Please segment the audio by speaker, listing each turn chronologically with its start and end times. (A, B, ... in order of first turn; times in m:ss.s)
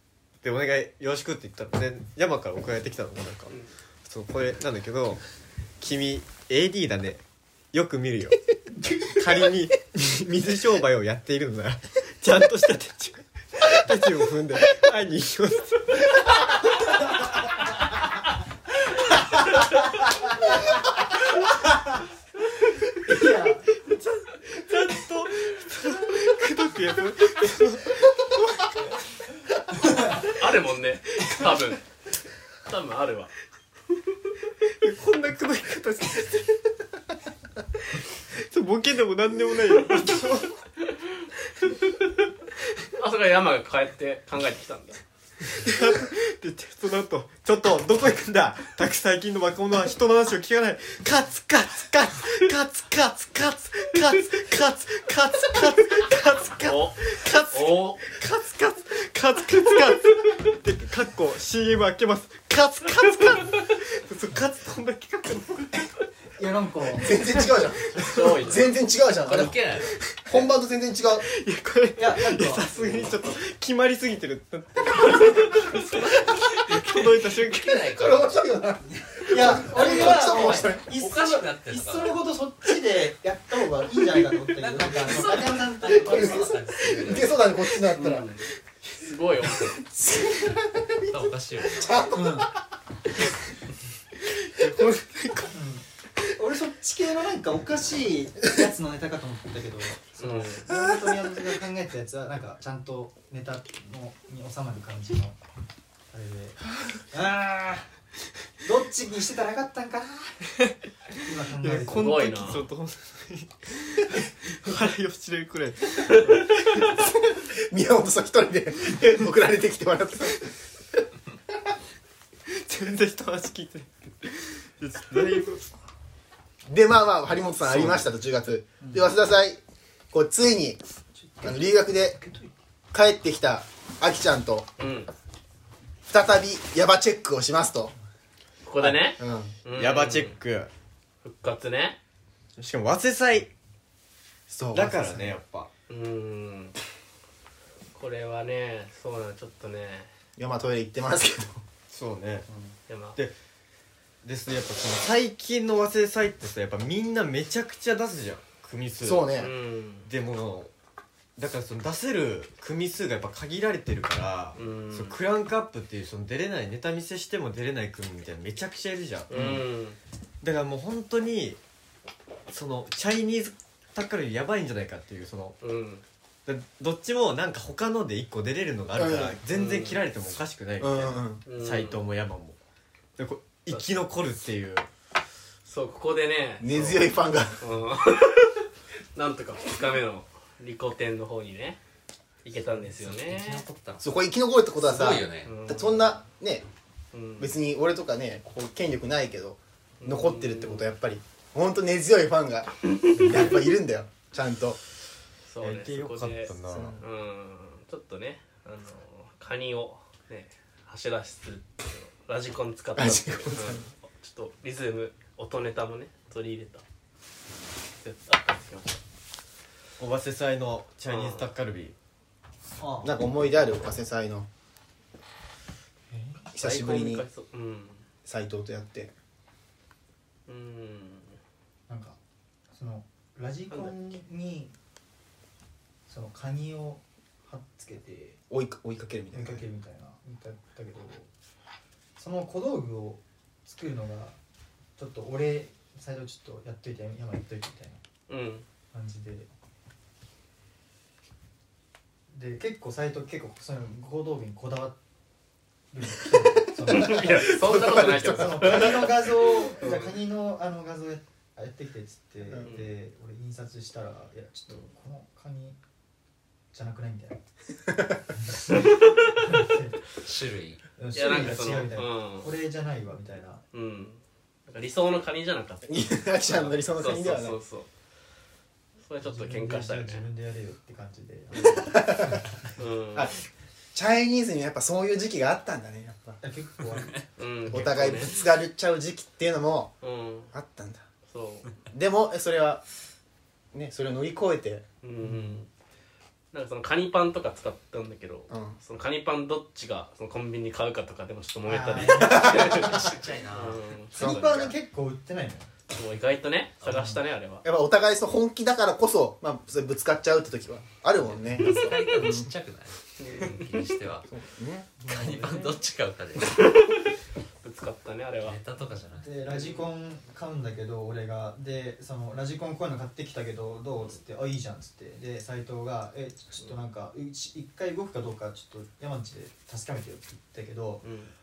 0:00.4-0:05.2 A
0:05.8-0:08.4 A
0:09.2-0:16.5 A
0:19.0-0:20.8 B
0:21.4-0:22.0 B
0:23.0-0:23.7 B
0:23.8-0:28.7 A
0:30.2-0:31.8 C
0:31.2-0:31.5 A
0:32.6-0:33.3 C
0:34.6-0:36.8 A
0:37.8-0:40.5 A
0:43.0-0:45.0 C
0:45.4-1:05.9 A
0:56.6-0:57.0 C
0:57.5-0:58.0 C
1:06.4-1:07.1 B
1:07.0-1:09.6 D
1:07.6-1:08.7 C
1:09.2-1:09.9 E
1:09.9-1:10.2 A
1:10.2-1:11.2 D
1:11.2-1:18.1 A
1:12.0-1:12.6 B
1:12.8-1:13.1 C
1:16.1-1:22.2 E
1:17.9-1:20.9 D
1:19.3-1:26.6 B
1:24.6-1:27.4 E
1:25.8-1:28.2 D
1:27.9-1:28.5 C
1:29.0-1:29.8 C
1:29.5-1:32.5 D
1:31.1-1:32.0 E
1:32.1-1:32.5 B
1:34.2-1:35.5 A
1:35.5-1:45.4 B
1:40.2-1:40.7 C
1:46.1-1:47.9 B
1:48.6-1:50.3 B
1:51.2-1:52.5 B
1:51.6-1:56.4 A
1:51.8-1:52.6 C
1:57.2-2:00.5 D
2:02.5-2:05.6 A
2:06.6-2:09.6 D
2:07.6-2:08.0 A
2:08.8-2:09.1 B
2:10.1-2:10.8 D
2:11.2-2:12.5 B
2:11.4-2:12.2 D
2:12.9-2:14.7 D
2:14.8-2:15.1 C
2:16.1-2:17.9 D
2:18.6-2:20.4 C
2:18.8-2:19.5 D
2:19.7-2:20.7 A
2:21.2-2:22.0 C
2:22.6-2:23.5 A
2:24.5-2:25.4 D
2:24.7-2:25.7 A
2:25.9-2:26.8 C
2:27.9-2:30.1 C
2:30.4-2:31.6 D
2:31.9-2:32.4 A
2:32.5-2:32.8 D
2:32.9-2:33.2 C
2:34.2-2:39.3 A
2:39.0-2:39.5 D
2:39.4-2:40.1 C
2:40.0-2:40.7 A
2:41.4-2:49.6 A
2:44.6-2:45.2 C
2:49.3-2:50.0 C
2:50.4-2:51.6 A
2:52.5-2:55.6 A
2:55.6-2:56.0 C
2:56.4-3:02.6 A
2:59.0-2:59.4 D
2:59.5-3:00.0 C
3:00.8-3:01.4 D
3:01.4-3:02.0 C
3:03.2-3:04.9 A
3:03.7-3:04.0 C
3:05.6-3:08.6 C
3:06.6-3:07.6 D
3:09.1-3:11.8 C
3:12.4-3:13.6 C
3:12.6-3:14.2 E
3:14.0-3:16.6 D
3:14.8-3:15.5 E
3:15.4-3:16.2 C
3:17.1-3:17.6 C
3:17.4-3:24.8 D
3:20.0-3:21.0 C
3:22.9-3:23.5 C
3:25.5-3:36.8 C
3:25.6-3:27.0 A
3:26.7-3:27.0 D
3:33.0-3:33.9 D
3:38.0-3:39.0 C
3:40.0-3:41.9 A
3:41.0-3:41.5 C
3:42.8-3:43.5 B
3:43.0-3:44.5 D
3:46.1-3:46.4 B
3:46.5-3:47.2 D
3:46.6-3:48.0 C
3:48.2-3:49.1 D
3:50.5-3:51.4 C
3:51.9-3:52.2 B
3:52.7-3:54.8 B
3:56.1-3:58.4 B
3:58.5-3:59.6 D
3:59.3-4:01.3 B
4:02.2-4:04.4 B
4:05.0-4:08.0 B
4:08.3-4:08.6 C
4:08.9-4:09.5 B
4:12.3-4:15.0 B
4:15.9-4:25.8 B
4:16.8-4:19.2 D
4:16.9-4:20.2 C
4:22.5-4:22.7 D
4:22.6-4:22.9 C
4:26.7-4:27.4 B
4:28.4-4:30.0 B
4:30.2-4:30.9 E
4:31.0-4:33.6 B
4:31.1-4:32.5 C
4:33.7-4:37.9 C
4:35.8-4:37.6 D
4:39.0-4:40.2 C
4:39.2-4:42.4 B
4:41.5-4:41.9 C
4:41.9-4:42.4 D
4:42.8-4:43.3 C
4:43.1-4:43.4 D
4:43.9-4:46.4 D
4:46.4-4:47.2 B
4:47.4-4:48.4 C
4:47.7-4:50.0 D
4:50.0-4:50.5 C
4:50.5-4:51.0 D
4:51.3-4:51.7 C
4:51.9-4:52.8 D
4:53.7-4:54.8 D
4:55.0-4:55.7 C
4:55.2-4:55.6 B
4:56.5-5:04.8 C
4:58.5-4:58.8 D
5:01.6-5:02.7 B
5:02.1-5:03.0 D
5:02.8-5:03.9 E
5:04.2-5:05.7 B
5:05.9-5:07.6 C
5:06.9-5:07.2 B
5:07.6-5:12.5 D
5:11.2-5:14.3 E
5:13.2-5:13.7 C
5:14.3-5:15.0 D
5:15.0-5:16.8 E
5:15.1-5:15.8 C
5:16.5-5:18.6 C
5:18.4-5:19.3 E
5:19.1-5:31.0 B
5:19.4-5:19.9 C
5:31.0-5:31.3 C